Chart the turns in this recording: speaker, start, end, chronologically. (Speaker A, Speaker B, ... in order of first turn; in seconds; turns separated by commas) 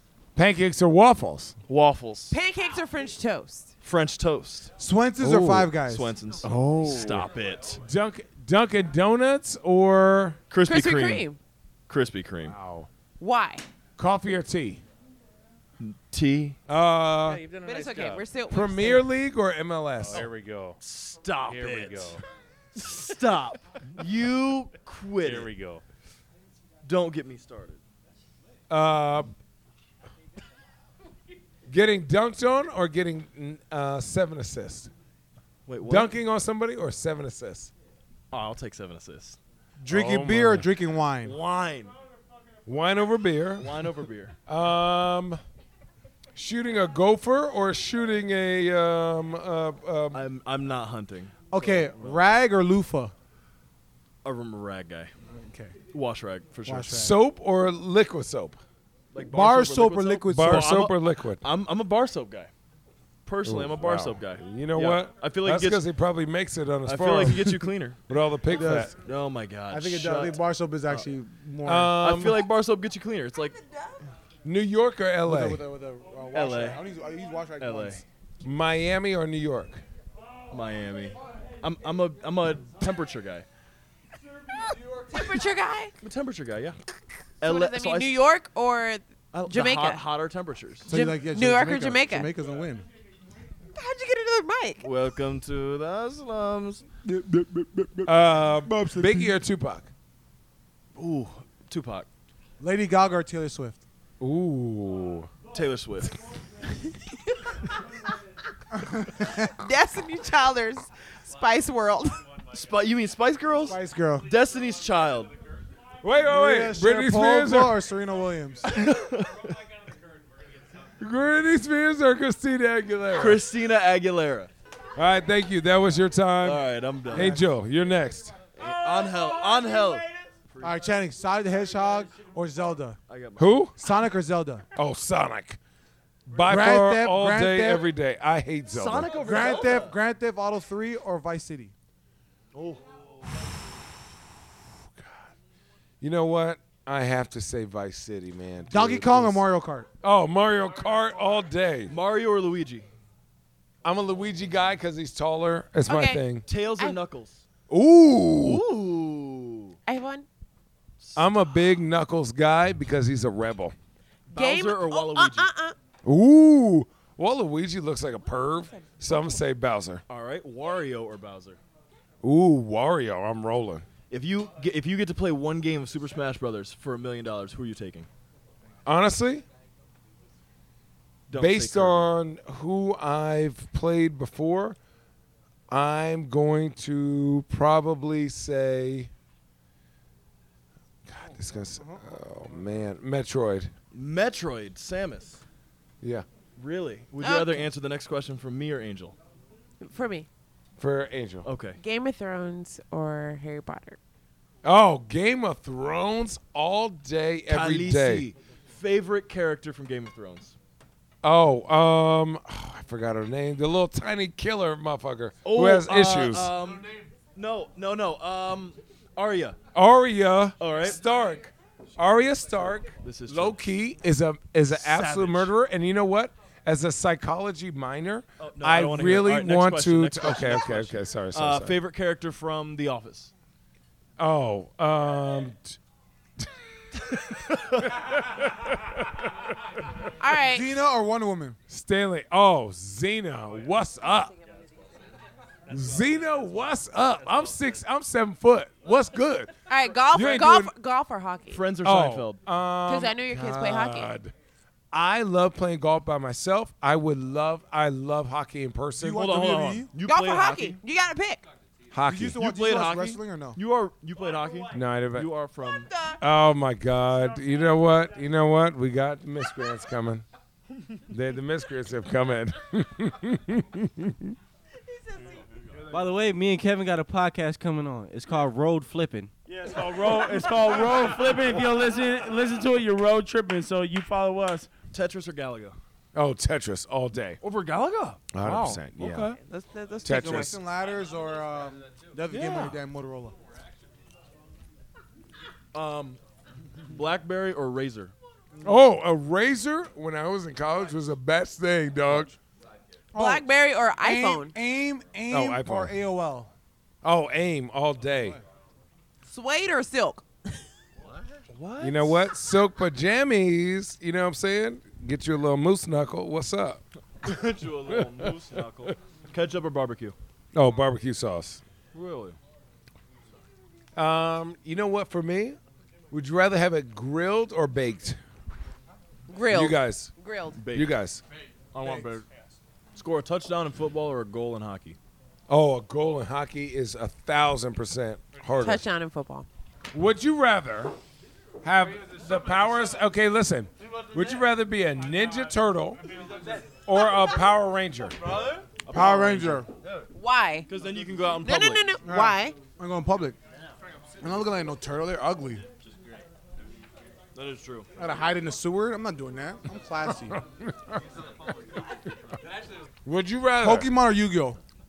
Speaker A: 0.3-1.6, Speaker B: 1.7-2.4, Speaker C: 2.3-3.7, Speaker B: 3.8-4.7, Speaker D: 4.8-6.1, Speaker A: 5.2-5.7, Speaker B: 5.8-7.8, Speaker A: 6.4-7.2, Speaker A: 7.8-10.4, Speaker B: 10.5-11.3, Speaker C: 10.6-11.4, Speaker B: 11.9-12.6, Speaker A: 12.5-12.9, Speaker C: 13.2-13.6, Speaker A: 14.0-14.8, Speaker B: 15.8-16.6, Speaker A: 16.7-17.4, Speaker E: 17.2-18.3, Speaker C: 17.6-19.0, Speaker A: 18.5-20.3, Speaker E: 20.0-20.8, Speaker B: 20.8-22.2, Speaker E: 21.4-22.2, Speaker B: 22.7-25.5, Speaker E: 25.2-25.8, Speaker B: 26.8-27.8, Speaker A: 28.7-29.3, Speaker A: 31.7-34.9, Speaker B: 35.7-36.1, Speaker A: 35.8-37.7, Speaker B: 38.3-39.4, Speaker D: 39.8-41.4, Speaker A: 39.9-40.6, Speaker B: 41.2-41.9, Speaker A: 42.6-43.9, Speaker B: 43.5-44.3, Speaker A: 44.5-45.4, Speaker A: 46.4-50.3, Speaker B: 50.1-52.2, Speaker D: 51.5-53.1, Speaker B: 54.2-55.1, Speaker D: 55.3-55.7, Speaker B: 55.8-57.0, Speaker D: 56.6-57.1, Speaker A: 56.9-58.6, Speaker B: 59.1-62.5, Speaker D: 59.3-60.8, Speaker A: 60.3-61.4, Speaker B: 63.2-65.8, Speaker A: 63.4-68.9, Speaker B: 66.8-68.0, Speaker D: 68.5-68.9, Speaker B: 68.6-71.0, Speaker D: 69.7-72.0, Speaker A: 71.6-72.5, Speaker B: 72.0-73.6, Speaker A: 74.4-75.6, Speaker D: 75.2-78.0, Speaker B: 76.3-76.8, Speaker B: 77.6-78.0, Speaker A: 78.4-79.8, Speaker B: 80.5-83.5, Speaker C: 85.1-85.9, Speaker B: 86.0-86.8, Speaker B: 87.4-88.2, Speaker C: 87.4-90.0, Speaker B: 89.3-90.9, Speaker C: 90.9-92.3, Speaker D: 90.9-92.8, Speaker C: 93.7-94.8, Speaker B: 94.8-96.9, Speaker A: 98.0-99.9, Speaker D: 98.7-99.3, Speaker B: 100.9-102.1, Speaker D: 102.6-103.8, Speaker A: 104.2-105.3, Speaker B: 105.5-106.1, Speaker D: 108.7-109.5, Speaker C: 109.4-112.2, Speaker B: 112.5-115.3, Speaker D: 113.7-114.3, Speaker A: 116.0-117.8, Speaker D: 116.2-118.7, Speaker B: 118.6-119.5, Speaker A: 121.0-123.4, Speaker B: 123.1-124.5, Speaker A: 125.0-128.4, Speaker B: 126.4-127.4, Speaker D: 127.1-127.4, Speaker B: 128.5-130.8, Speaker D: 130.6-133.0, Speaker B: 133.1-133.7, Speaker A: 133.4-133.8, Speaker D: 133.8-134.7, Speaker A: 134.7-135.6, Speaker A: 136.3-139.1, Speaker D: 136.4-137.9, Speaker B: 138.7-139.9, Speaker D: 139.2-141.7, Speaker B: 142.5-142.9, Speaker A: 144.9-145.3, Speaker A: 146.0-149.4, Speaker D: 148.7-149.9, Speaker A: 150.0-151.9, Speaker B: 151.9-152.9, Speaker A: 153.8-156.4, Speaker C: 155.8-157.0, Speaker B: 156.4-157.4, Speaker A: 157.7-158.6, Speaker B: 158.4-159.8, Speaker C: 159.8-160.3, Speaker B: 161.0-161.4, Speaker A: 161.1-163.7, Speaker B: 164.3-165.5, Speaker C: 164.3-165.8, Speaker A: 166.0-170.0, Speaker B: 170.1-171.6, Speaker A: 172.2-173.8, Speaker B: 174.1-178.1, Speaker A: 178.8-179.4, Speaker B: 181.3-182.1, Speaker A: 181.3-184.8, Speaker A: 185.7-189.1, Speaker A: 191.1-193.7, Speaker B: 193.9-195.4, Speaker B: 196.6-199.2, Speaker C: 197.2-197.7, Speaker C: 199.8-200.3, Speaker A: 200.8-201.5, Speaker B: 201.4-201.8, Speaker C: 201.8-204.0, Speaker A: 204.6-208.3, Speaker B: 207.5-210.5, Speaker A: 211.2-216.5, Speaker B: 215.4-219.6, Speaker A: 219.7-231.8, Speaker B: 220.6-221.0, Speaker B: 223.0-223.7, Speaker B: 224.8-225.5, Speaker B: 228.4-233.3, Speaker A: 234.2-235.8, Speaker A: 236.4-239.4, Speaker B: 237.5-237.8, Speaker C: 240.2-240.7, Speaker D: 240.4-241.6, Speaker A: 241.7-244.3, Speaker A: 245.7-250.7, Speaker C: 249.7-251.6, Speaker B: 251.5-252.4, Speaker A: 251.8-254.3, Speaker C: 252.9-254.1, Speaker A: 254.9-259.4, Speaker D: 259.0-259.9, Speaker B: 259.1-260.8, Speaker C: 260.0-261.4, Speaker A: 261.9-262.4, Speaker D: 262.1-263.6, Speaker B: 262.4-265.9, Speaker A: 264.7-265.3, Speaker C: 265.8-266.2, Speaker A: 266.2-270.2, Speaker A: 271.1-274.4, Speaker C: 274.8-275.4, Speaker F: 275.9-279.3, Speaker G: 279.5-284.7, Speaker B: 284.9-285.8, Speaker A: 286.1-287.4, Speaker B: 287.4-289.4, Speaker A: 288.3-289.3, Speaker C: 289.3-290.5, Speaker A: 290.0-290.6, Speaker D: 290.1-293.4, Speaker B: 292.3-292.8, Speaker B: 295.7-296.2, Speaker B: 296.9-298.1, Speaker A: 298.6-302.3, Speaker D: 303.1-303.4, Speaker C: 303.1-304.5, Speaker D: 304.0-306.5, Speaker A: 305.3-305.9, Speaker A: 307.0-308.4, Speaker C: 309.2-310.6, Speaker B: 311.5-312.2, Speaker A: 311.8-316.8, Speaker B: 317.2-320.1, Speaker A: 317.9-318.4, Speaker A: 320.5-321.6, Speaker B: 321.9-322.4, Speaker A: 323.9-325.6, Speaker A: 326.1-328.2, Speaker C: 329.3-330.6, Speaker A: 329.5-330.1, Speaker B: 330.5-330.9, Speaker A: 330.7-331.2, Speaker B: 331.7-332.2, Speaker B: 332.9-335.0, Speaker A: 335.5-338.8, Speaker C: 338.6-339.5, Speaker A: 339.9-340.9, Speaker A: 341.6-346.0, Speaker A: 346.9-348.2, Speaker B: 348.8-350.1, Speaker D: 348.9-349.7, Speaker C: 350.1-350.7, Speaker B: 350.7-351.9, Speaker C: 351.4-352.6, Speaker D: 352.0-353.4, Speaker D: 354.2-355.6, Speaker B: 357.3-357.9, Speaker D: 358.0-360.4, Speaker A: 360.3-361.0, Speaker A: 363.0-363.9, Speaker D: 363.6-364.6